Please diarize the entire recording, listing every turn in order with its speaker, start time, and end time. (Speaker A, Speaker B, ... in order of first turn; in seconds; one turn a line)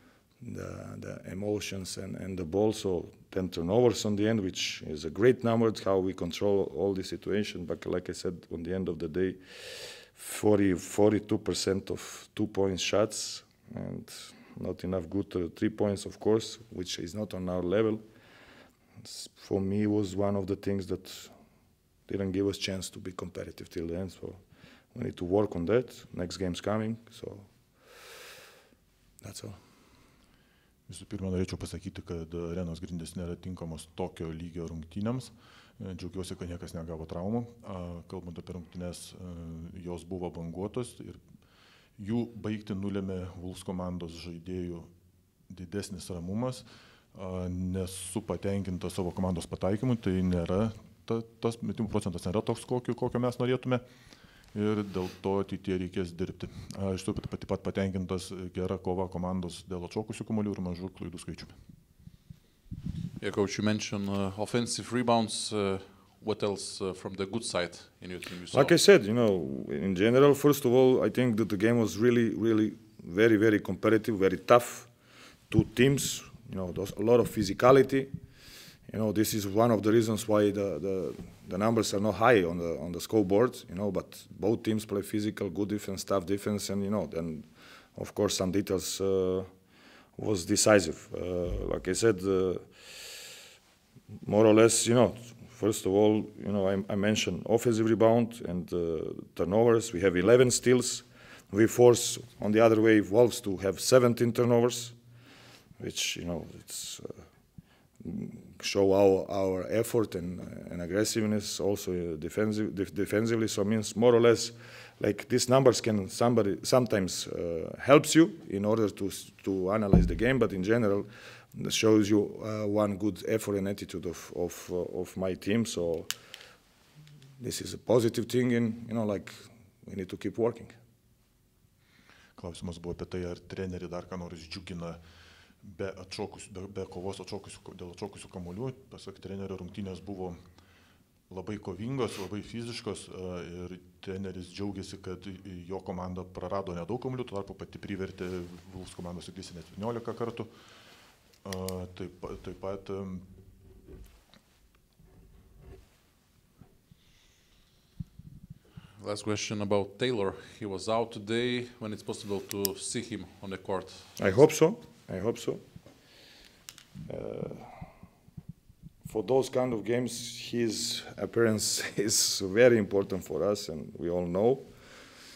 Speaker A: 0.4-18.0
Speaker A: 19.0-21.3
Speaker A: 22.1-24.4
Speaker A: 24.9-27.5
Speaker A: 29.2-29.6
Speaker B: 30.9-41.2
Speaker B: 42.0-44.9
Speaker B: 45.5-53.8
Speaker B: 54.5-61.5
Speaker C: 63.2-68.7
Speaker A: 68.5-74.9
Speaker A: 75.5-78.1
Speaker A: 78.9-89.5
Speaker A: 90.2-92.6
Speaker A: 94.2-104.9
Speaker A: 105.8-107.1
Speaker A: 108.0-126.1
Speaker A: 127.4-130.7
Speaker B: 132.3-135.0
Speaker B: 135.6-140.4
Speaker B: 141.3-150.5
Speaker B: 151.4-153.2
Speaker C: 159.0-164.4
Speaker A: 164.2-165.6
Speaker A: 167.1-167.7
Speaker A: 169.0-174.7